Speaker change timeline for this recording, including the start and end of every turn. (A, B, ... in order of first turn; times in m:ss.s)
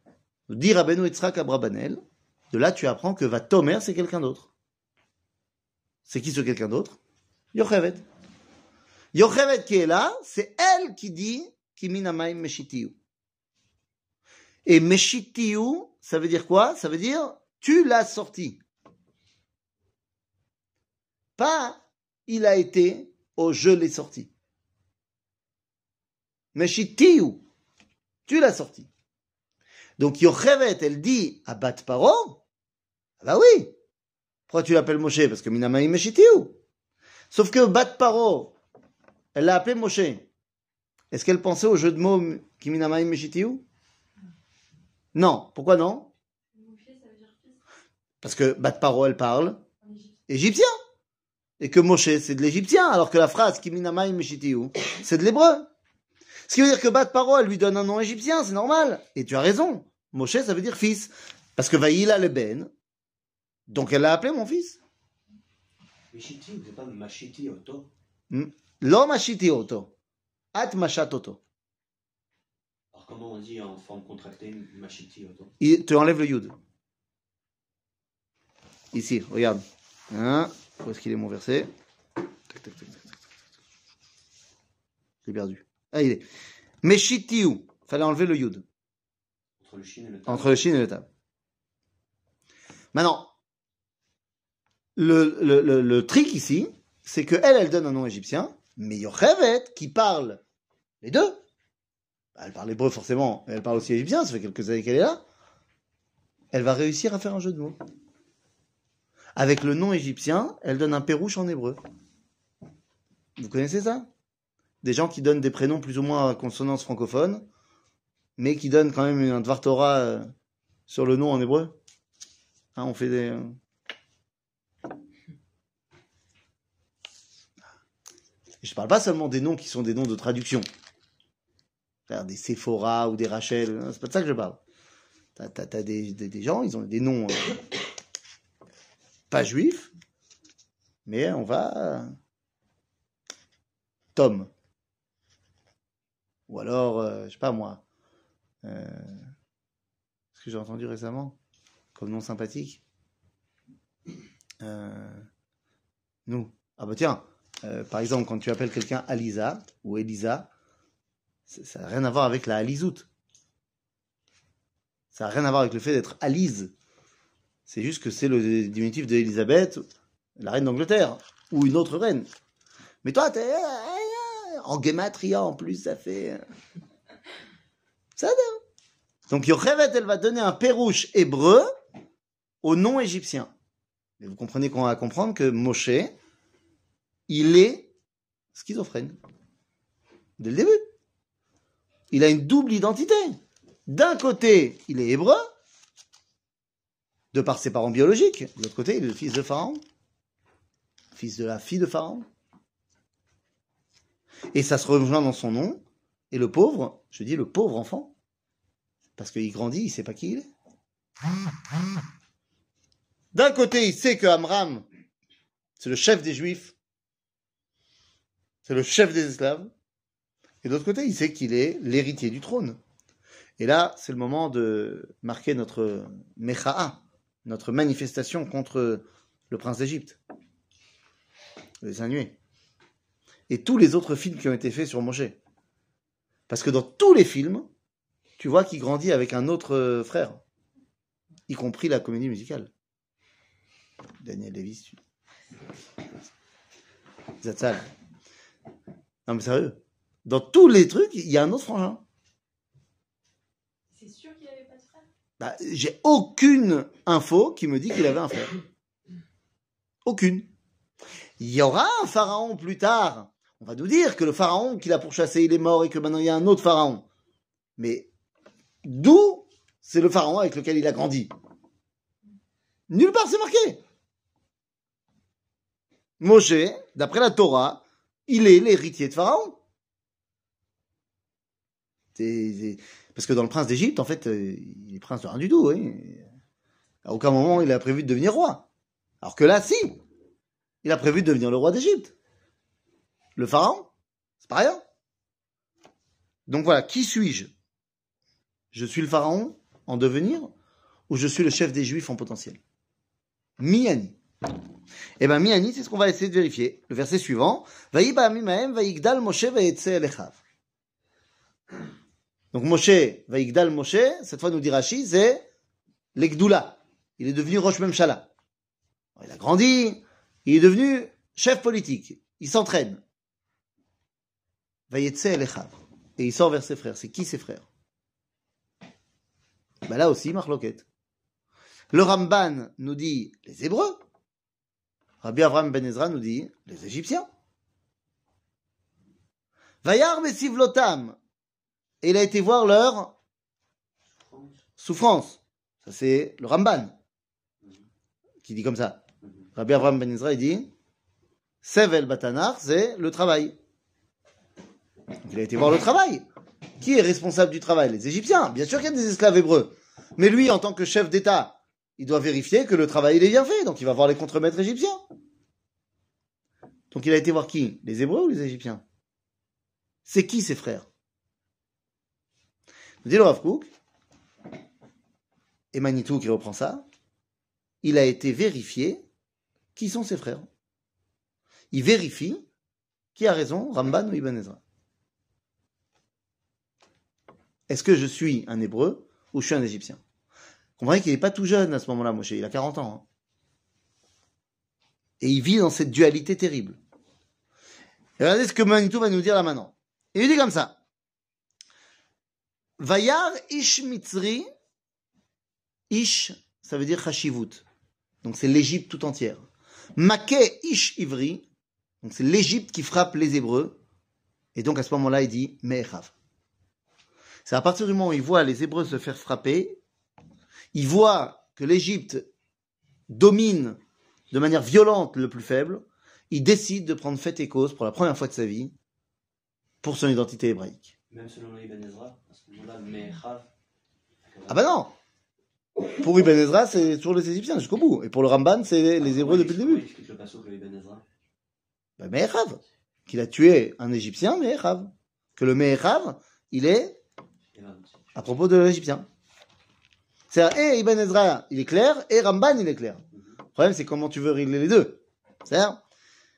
0:00.5-0:02.0 A
0:02.5-0:04.5 A
0:06.0-0:07.0 A
0:07.5-0:08.0 A
0:09.1-0:12.9 A
0:14.6-0:18.6 A
0:21.4-0:24.3 A
0:26.5-0:27.4 A
0:28.3-0:28.9 A
0:30.0-0:32.4 A
0:33.2-0:33.7 A
0:34.5-0:36.6 A
0:37.3-0:38.5 A
0:39.3-0:40.2 A
0:41.1-0:43.6 A
0:45.1-0:46.1 A
0:46.5-0:47.6 B
0:48.2-0:49.6 A
0:49.8-0:50.1 B
0:50.3-0:50.7 A
0:51.6-0:55.7 A
0:56.5-1:02.7 A
1:03.7-1:04.8 A
1:06.1-1:07.9 C
1:08.3-1:09.9 A
1:10.5-1:11.4 A
1:12.9-1:15.5 C
1:15.6-1:16.5 A
1:18.9-1:21.7 A
1:22.5-1:23.0 A
1:25.2-1:26.2 A
1:26.8-1:28.6 A
1:29.6-1:30.7 C
1:30.3-1:31.0 A
1:32.9-1:33.3 A
1:35.0-1:40.4 A
1:41.0-1:41.4 A
1:42.4-1:45.2 A
1:46.5-1:47.8 A
1:49.4-1:51.8 A
1:53.4-1:54.1 A
1:54.8-1:57.4 A
1:58.4-2:00.3 A
2:00.9-2:01.7 A
2:02.8-2:03.5 A
2:08.6-2:10.6 A
2:12.1-2:14.6 A
2:15.4-2:17.6 A
2:19.3-2:19.9 A
2:21.0-2:22.1 A
2:24.1-2:24.5 A
2:26.5-2:27.8 A
2:28.6-2:29.2 A
2:30.3-2:31.4 A
2:31.9-2:32.8 A
2:34.6-2:35.2 A
2:36.3-2:40.5 A
2:41.5-2:43.1 A
2:45.1-2:46.7 A
2:47.7-2:49.8 A
2:50.4-2:52.3 A
2:53.0-2:56.4 A
2:58.2-2:58.6 A
2:59.3-3:01.7 A
3:02.6-3:03.5 A
3:04.2-3:06.1 A
3:07.3-3:07.9 A
3:08.5-3:09.2 A
3:10.4-3:10.8 A
3:12.1-3:13.4 A
3:13.9-3:15.5 A
3:17.3-3:19.8 A
3:21.1-3:22.2 A
3:24.5-3:28.1 A
3:29.2-3:30.4 A
3:33.3-3:34.8 A
3:35.8-3:36.7 A
3:38.6-3:39.7 A
3:40.6-3:42.8 A
3:43.6-3:50.2 A
3:51.8-3:52.3 A
3:53.5-3:55.4 A
3:56.5-3:57.7 A
3:58.4-4:00.4 A
4:01.5-4:02.7 A
4:04.2-4:05.0 A
4:07.4-4:07.8 A
4:09.2-4:12.0 A
4:13.9-4:15.0 B
4:15.4-4:18.5 A
4:20.0-4:20.5 A
4:21.4-4:27.0 A
4:27.8-4:28.1 A
4:28.8-4:31.3 A
4:32.9-4:33.8 A
4:36.2-4:39.6 A
4:42.1-4:46.2 A
4:47.0-4:48.7 A
4:49.2-4:50.0 A
4:50.8-4:52.1 A
4:53.4-4:53.9 A
4:54.4-4:54.8 A
4:56.5-4:57.5 A
4:58.7-5:00.5 A
5:01.1-5:02.6 A
5:03.6-5:04.2 A
5:05.2-5:10.4 A
5:12.5-5:15.4 A
5:16.1-5:18.3 A
5:19.2-5:23.0 A
5:24.9-5:27.6 A
5:29.8-5:30.8 A
5:31.9-5:34.0 A
5:35.2-5:37.3 A
5:39.8-5:41.2 A
5:42.0-5:43.1 A
5:44.1-5:44.6 C
5:44.8-5:46.9 A
5:48.4-5:49.0 A
5:49.5-5:50.7 A
5:51.6-5:53.5 A
5:55.2-5:56.2 A
5:56.8-6:05.0 A
6:06.9-6:08.8 A
6:10.0-6:10.8 A
6:13.0-6:13.7 A
6:15.7-6:16.8 A
6:17.8-6:19.0 A
6:19.8-6:20.5 A
6:21.7-6:22.4 A
6:23.1-6:24.6 A
6:27.7-6:30.0 A
6:30.8-6:33.0 A
6:35.2-6:36.8 A
6:38.2-6:40.7 A
6:42.8-6:44.5 A
6:45.9-6:47.6 A
6:48.2-6:51.4 A
6:52.0-6:53.7 A
6:54.5-6:56.1 A
6:57.4-6:59.8 A
7:00.7-7:02.3 A
7:03.1-7:03.8 A
7:04.3-7:08.7 A
7:09.8-7:10.9 A
7:11.1-7:13.4 C
7:14.2-7:14.7 C
7:14.5-7:14.9 A
7:16.0-7:19.8 A
7:19.0-7:21.0 C
7:22.0-7:27.0 A
7:27.5-7:28.3 C
7:28.1-7:29.1 A
7:30.3-7:33.0 A
7:33.5-7:35.8 A